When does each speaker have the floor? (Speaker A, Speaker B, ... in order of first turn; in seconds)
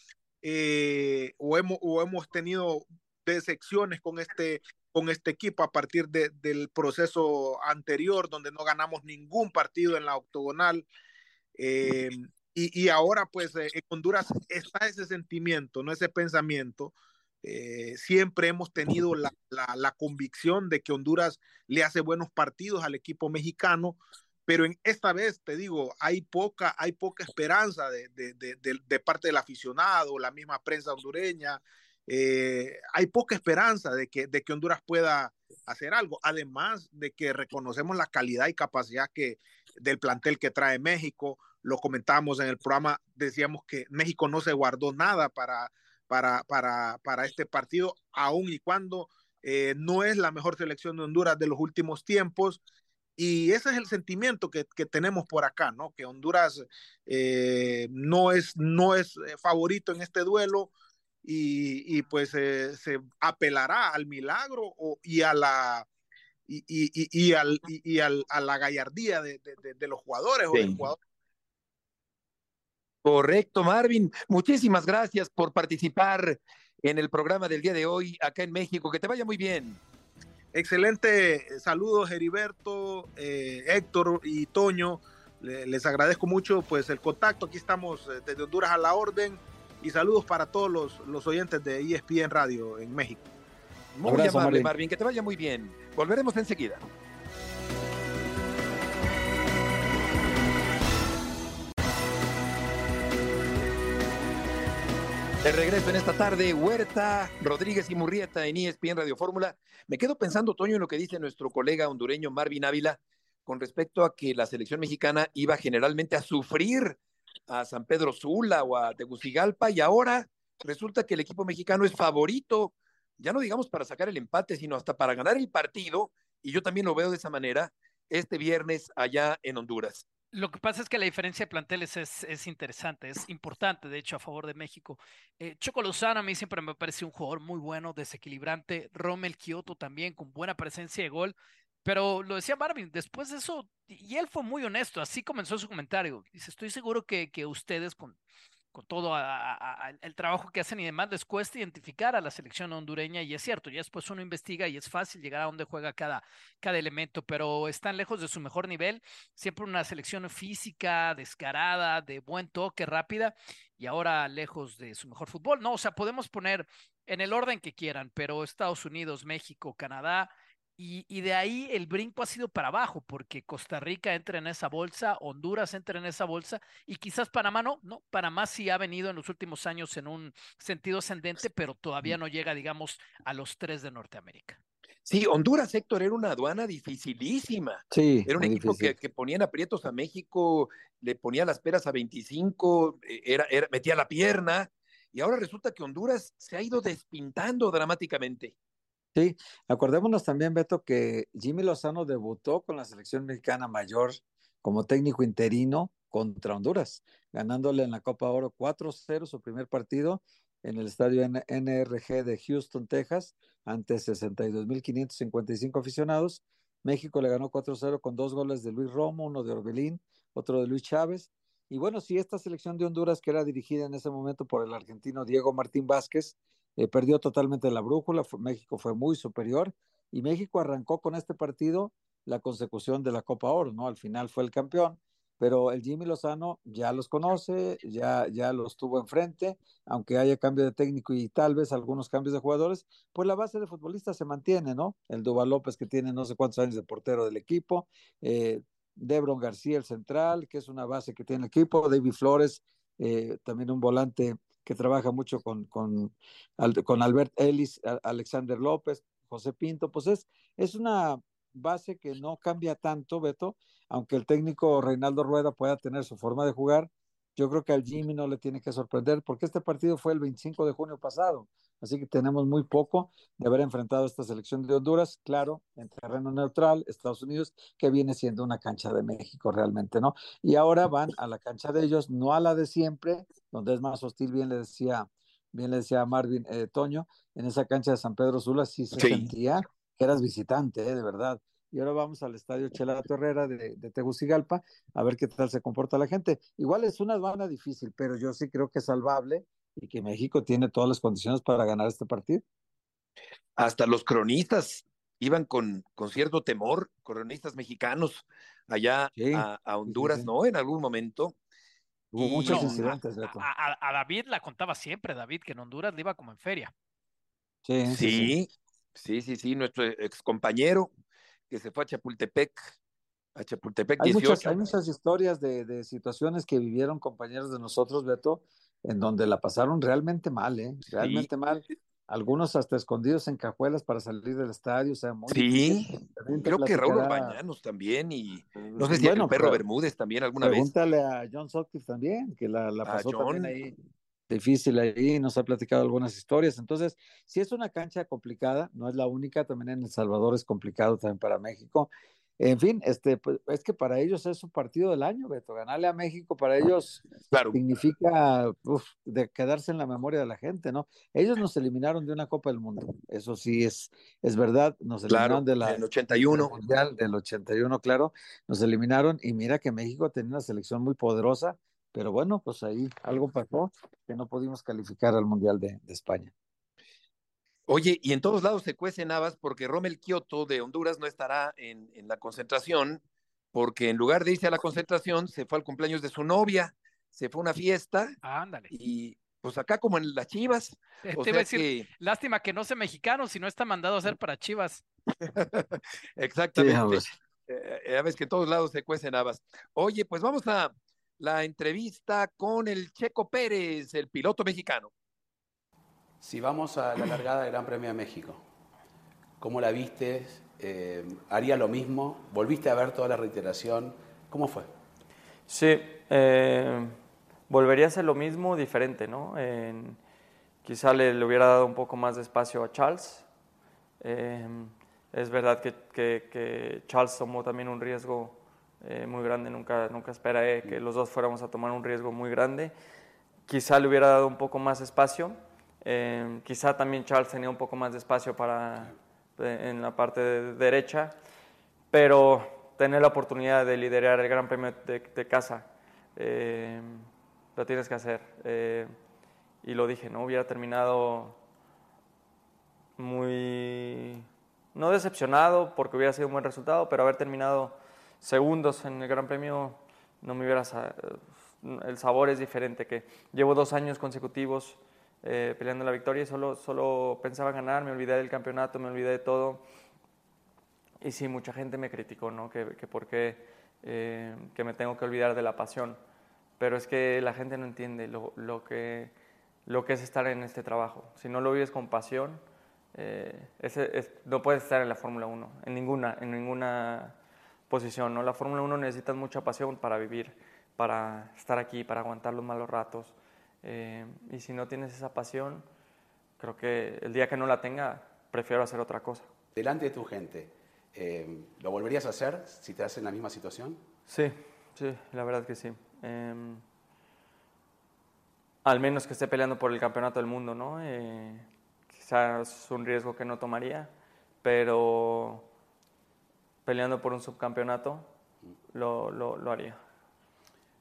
Speaker A: 0.4-10.8, 11.6-52.6, 53.2-60.7, 61.2-65.8, 66.5-71.0, 80.5-93.2
Speaker B: 70.5-70.8, 73.0-79.8, 93.9-96.8, 105.4-117.0, 117.5-130.1, 185.1-198.5, 289.0-289.3, 303.6-311.3, 312.1-312.8, 317.9-320.9, 321.5-322.6, 323.4-324.6, 330.9-331.3, 335.3-340.7, 342.8-343.5, 357.3-357.6, 365.1-366.5, 377.7-383.0, 383.5-388.1, 388.7-391.9, 395.2-404.9
Speaker C: 94.0-94.7, 187.9-188.9, 199.1-302.4, 309.2-310.3, 312.1-313.5, 317.6-318.3, 324.0-337.4, 338.8-339.6, 340.4-343.7, 344.3-376.3, 396.6-397.1
Speaker D: 130.3-148.2, 148.7-184.6, 312.4-316.7, 388.2-388.7, 391.0-394.8
Speaker E: 406.2-408.4, 409.4-414.7, 499.5-503.8
Speaker F: 415.5-416.9, 417.5-420.0, 420.6-423.2, 424.0-432.7, 433.5-441.1, 441.9-448.9, 449.6-451.4, 453.0-469.6, 471.0-476.0, 476.6-479.1, 479.6-482.4, 482.9-487.2, 487.7-495.6, 496.4-499.3, 504.1-506.6, 508.6-513.9, 514.4-515.5, 516.6-518.1, 518.7-519.8